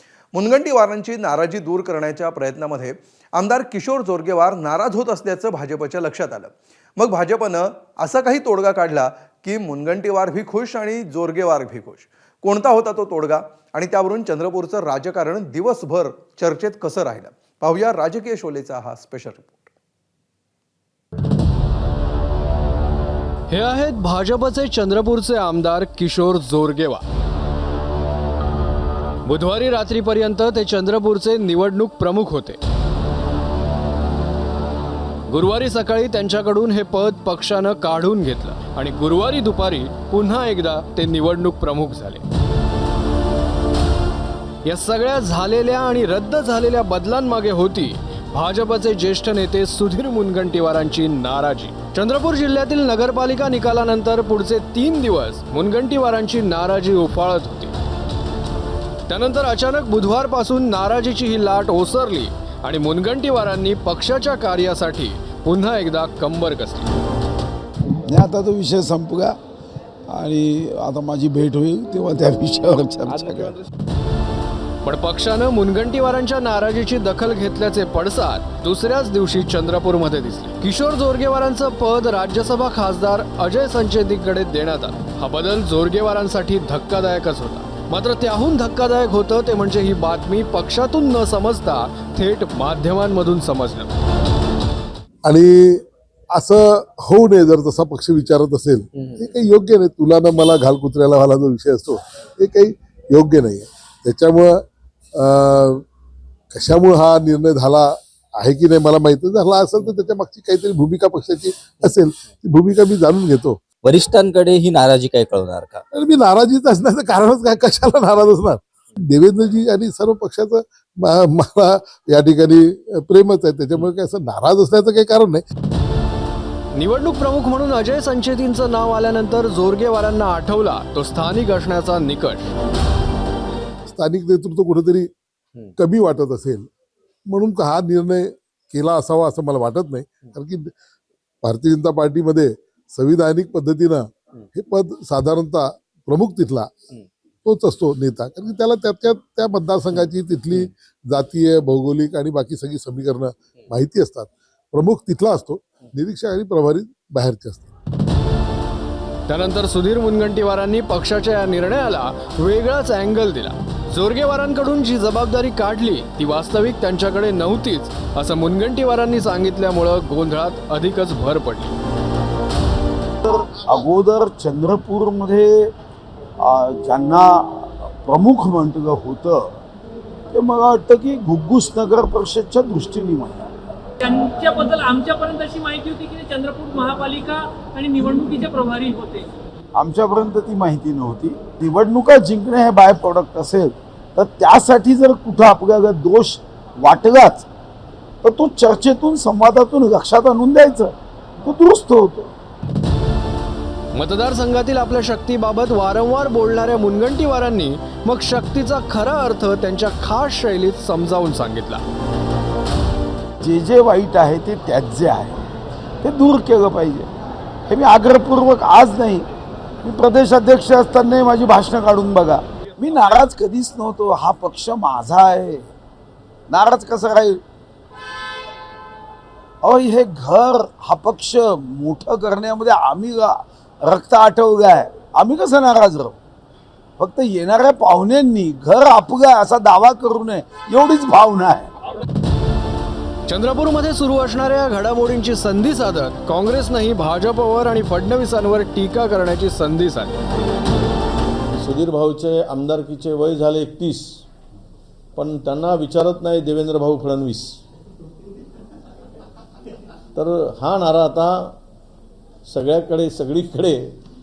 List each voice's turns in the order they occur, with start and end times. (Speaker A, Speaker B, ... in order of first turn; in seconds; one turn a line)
Speaker A: 0.3-19.7
Speaker B: 23.5-27.0
Speaker B: 29.2-32.6
Speaker B: 35.3-42.2
Speaker B: 44.6-57.8
Speaker B: 59.1-66.9
Speaker C: 68.0-69.4
Speaker C: 70.1-73.6
Speaker B: 74.8-93.9
Speaker D: 95.2-105.8
Speaker D: 106.5-113.6
Speaker E: 113.8-115.8
Speaker D: 115.9-125.4
Speaker B: 126.8-132.5
Speaker D: 133.9-135.1
Speaker D: 135.7-136.7
Speaker D: 137.3-140.7
Speaker D: 141.4-146.8
Speaker D: 147.4-157.7
Speaker B: 159.3-171.8
Speaker C: 173.2-175.7
Speaker C: 176.4-179.5
Speaker C: 180.3-183.5
Speaker F: 184.0-189.3
Speaker C: 189.7-197.5
Speaker C: 198.2-202.3
Speaker B: 203.9-211.8
Speaker C: 213.4-215.4
Speaker C: 216.0-217.1
Speaker C: 217.7-219.3
Speaker C: 219.8-225.7
Speaker C: 226.5-227.4
Speaker C: 229.6-236.2
Speaker C: 237.0-241.7
Speaker B: 243.3-250.2
Speaker G: 251.5-254.2
Speaker G: 255.2-257.6
Speaker G: 260.1-261.6
Speaker G: 262.5-264.0